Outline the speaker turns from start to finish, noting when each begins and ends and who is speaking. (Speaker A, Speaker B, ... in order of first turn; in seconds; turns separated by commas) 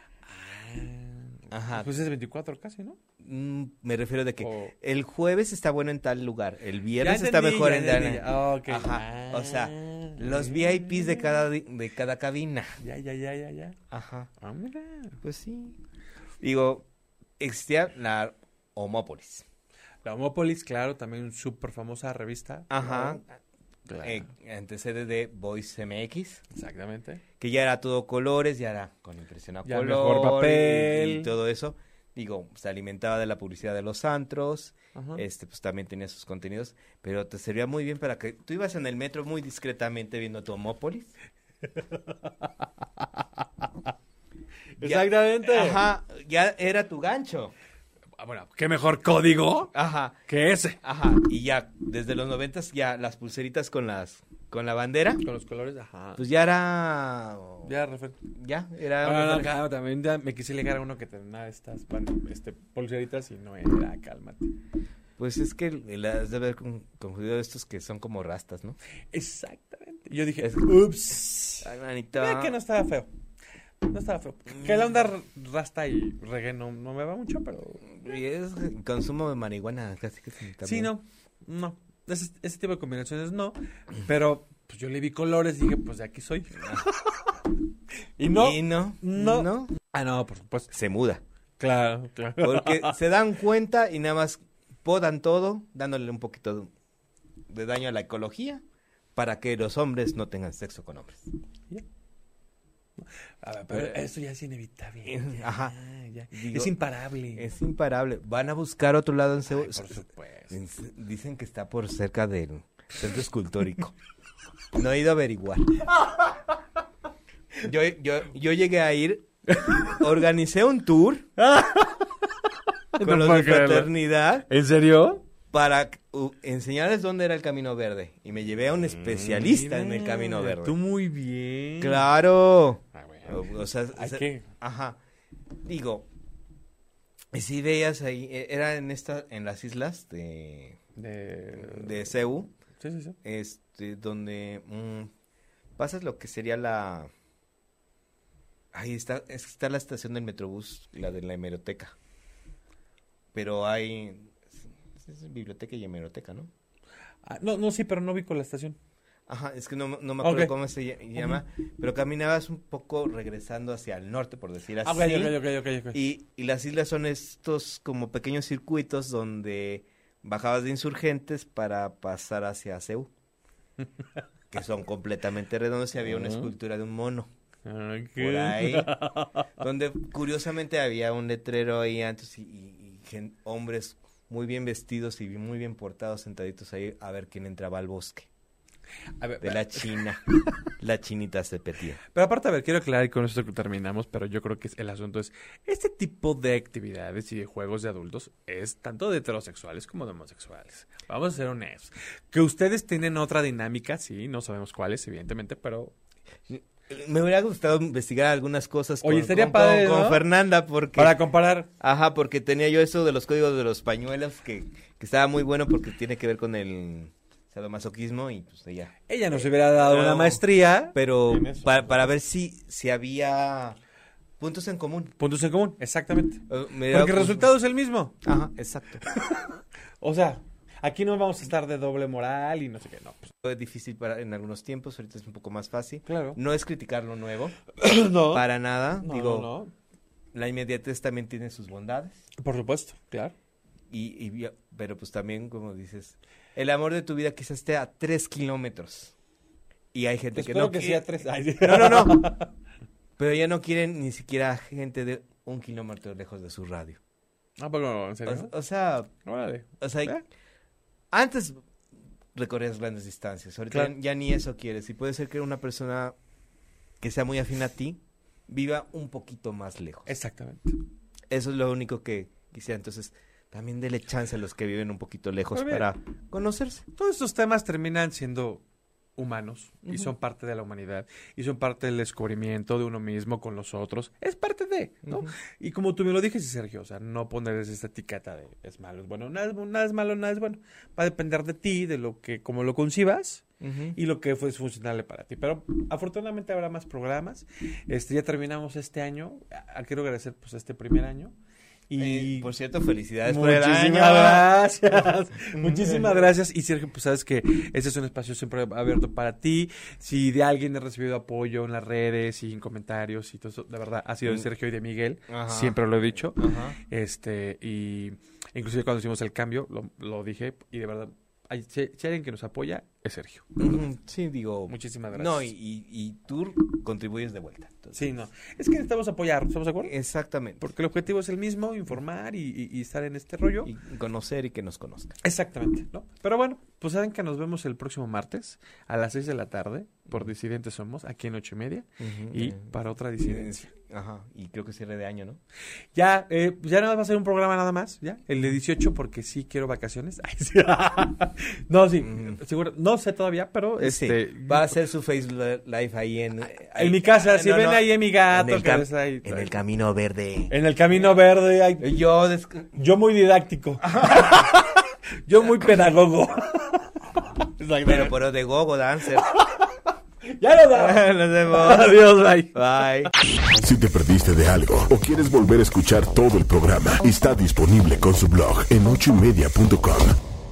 Speaker A: 0.2-3.0, Speaker B: 1.5-1.9, Speaker B: 3.2-12.8, Speaker A: 4.4-4.7, Speaker A: 7.0-11.4, Speaker A: 12.8-13.8, Speaker B: 13.9-14.3, Speaker A: 14.4-15.2, Speaker B: 15.2-15.8, Speaker B: 16.4-16.8, Speaker B: 17.4-19.4, Speaker A: 20.0-23.2, Speaker B: 22.7-23.2, Speaker A: 23.9-24.2, Speaker B: 24.0-26.4, Speaker A: 26.5-27.2, Speaker B: 27.4-41.1, Speaker A: 29.6-31.3, Speaker A: 34.9-35.2, Speaker A: 41.7-43.6, Speaker A: 44.8-45.9, Speaker B: 44.8-47.5, Speaker A: 48.2-49.7, Speaker B: 49.7-50.2, Speaker A: 50.3-50.8, Speaker B: 50.8-55.2, Speaker A: 55.2-56.2, Speaker B: 56.2-57.7, Speaker A: 57.6-58.2, Speaker B: 58.3-59.5, Speaker A: 59.0-64.5, Speaker B: 65.2-68.8, Speaker A: 69.1-73.1, Speaker B: 70.4-70.7, Speaker B: 71.6-72.5, Speaker A: 73.8-77.9, Speaker B: 77.9-80.9, Speaker A: 80.6-87.3, Speaker A: 88.2-90.7, Speaker B: 88.3-89.8, Speaker B: 90.7-91.2, Speaker A: 91.6-93.0, Speaker B: 92.4-96.7, Speaker B: 97.5-98.6, Speaker B: 99.1-101.3, Speaker A: 103.0-107.5, Speaker B: 105.0-105.7, Speaker B: 106.3-106.7, Speaker B: 107.3-110.0, Speaker A: 109.5-110.5, Speaker B: 110.5-113.9, Speaker B: 114.7-115.9, Speaker B: 117.6-121.3, Speaker A: 119.5-120.0, Speaker A: 121.4-122.2, Speaker A: 122.9-123.9, Speaker B: 123.0-124.5, Speaker A: 124.5-125.2, Speaker B: 125.5-130.8, Speaker A: 128.9-132.0, Speaker B: 131.8-135.0, Speaker A: 132.9-134.4, Speaker B: 135.7-136.1, Speaker B: 137.3-140.8, Speaker A: 140.9-142.1, Speaker B: 141.6-142.5, Speaker A: 142.8-143.2, Speaker B: 143.2-145.1, Speaker B: 145.8-147.1, Speaker B: 148.7-151.9, Speaker B: 153.3-154.4, Speaker B: 155.0-156.5, Speaker A: 157.2-158.8, Speaker B: 159.3-165.3, Speaker A: 160.2-160.5, Speaker A: 164.8-166.0, Speaker B: 165.9-173.1, Speaker B: 174.5-177.3, Speaker A: 176.1-176.5, Speaker A: 177.6-179.5, Speaker B: 178.2-178.9, Speaker B: 179.6-188.3, Speaker A: 189.2-189.8, Speaker B: 189.4-192.0, Speaker A: 192.1-205.9, Speaker B: 206.5-211.2, Speaker A: 209.0-210.2, Speaker A: 210.9-211.7, Speaker B: 211.8-220.4, Speaker A: 219.1-222.0, Speaker B: 220.9-223.8, Speaker B: 224.4-225.1, Speaker A: 225.2-228.1, Speaker B: 226.5-227.5, Speaker B: 228.2-229.0, Speaker A: 229.1-233.3, Speaker B: 233.4-237.6, Speaker A: 236.1-236.4, Speaker A: 237.7-238.4, Speaker B: 238.3-239.5, Speaker A: 239.0-239.7, Speaker B: 240.3-242.2, Speaker A: 242.4-243.3, Speaker B: 243.9-249.1, Speaker B: 249.9-251.1, Speaker A: 250.3-252.5, Speaker B: 251.6-252.3, Speaker B: 253.2-257.0, Speaker A: 257.6-258.5, Speaker B: 258.2-259.1, Speaker A: 259.2-260.2, Speaker B: 259.8-260.1, Speaker B: 261.1-261.6, Speaker B: 262.3-266.1, Speaker B: 267.0-270.1, Speaker A: 270.1-270.8, Speaker B: 271.3-276.8, Speaker A: 275.5-275.9, Speaker A: 276.9-278.6, Speaker A: 279.1-293.4, Speaker B: 279.9-280.1, Speaker B: 285.1-285.3, Speaker B: 293.6-294.0, Speaker A: 293.9-301.3, Speaker A: 301.9-302.5, Speaker B: 302.0-304.5, Speaker A: 303.2-323.8, Speaker B: 305.5-306.2, Speaker B: 315.3-315.8, Speaker B: 316.4-316.8, Speaker B: 323.6-328.1, Speaker A: 324.7-325.5, Speaker A: 327.9-329.9, Speaker B: 329.8-330.6, Speaker A: 330.6-333.7, Speaker B: 333.6-335.2, Speaker A: 335.2-343.6, Speaker B: 342.0-345.4, Speaker A: 345.9-354.7, Speaker B: 352.0-352.4, Speaker B: 353.8-361.1, Speaker A: 356.7-359.5, Speaker A: 360.5-361.9, Speaker B: 361.8-362.7, Speaker A: 362.8-368.2, Speaker B: 363.8-364.6, Speaker B: 367.8-369.3, Speaker A: 369.2-373.1, Speaker B: 370.7-373.1, Speaker C: 373.5-380.1